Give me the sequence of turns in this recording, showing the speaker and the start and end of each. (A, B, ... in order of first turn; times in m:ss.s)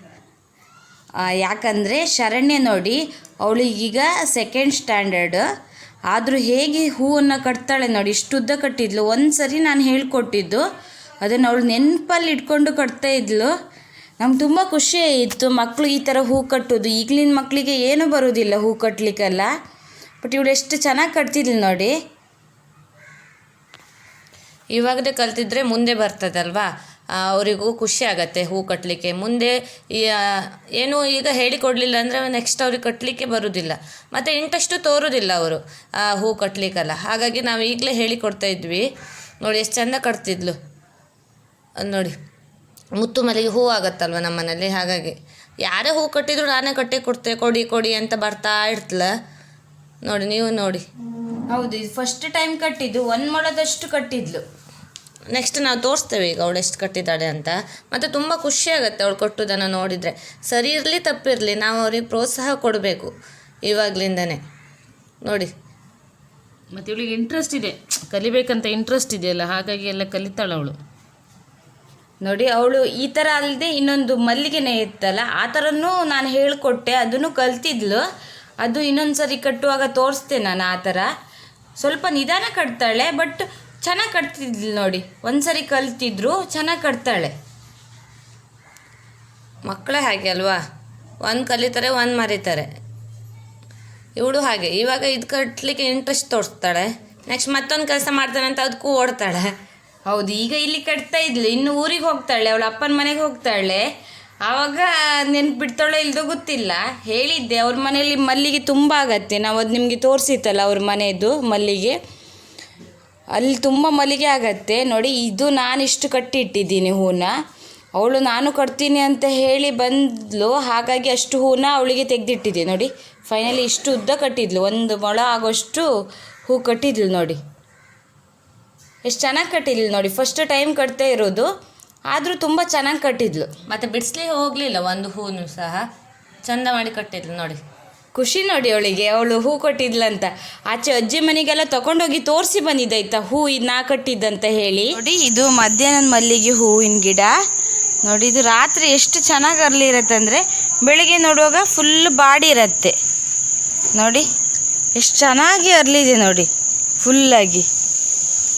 0:01.2-0:05.4 A
0:06.1-0:10.6 A
0:11.2-0:13.5 A
0:14.2-0:19.5 A
0:20.2-0:21.9 A
0:24.7-0:38.9 B
0:39.4-0:40.6 B
0:41.8-0:42.2 B
0:43.0-0:49.1 B
0:50.0-0:50.8 B
0:51.5-0:54.4 A
0:55.3-1:03.1 B
1:03.7-1:04.4 B
1:05.2-1:05.5 B
1:06.7-1:10.8 C
1:12.2-1:18.0 A
1:18.6-1:21.1 A
1:21.8-1:27.3 A
1:29.7-1:30.6 B
1:31.2-1:32.7 B
1:34.2-1:39.5 B
1:40.1-1:43.8 A
1:44.4-1:52.0 A
1:53.4-1:57.3 A
1:58.0-2:05.9 A
2:06.5-2:07.4 A
2:09.1-2:11.5 A
2:12.1-2:13.5 A
2:13.7-2:15.8 B
2:16.4-2:17.6 B
2:18.2-2:27.3 A
2:28.0-2:32.9 A
2:34.0-2:34.3 A
2:35.0-2:36.5 A
2:37.0-2:37.7 A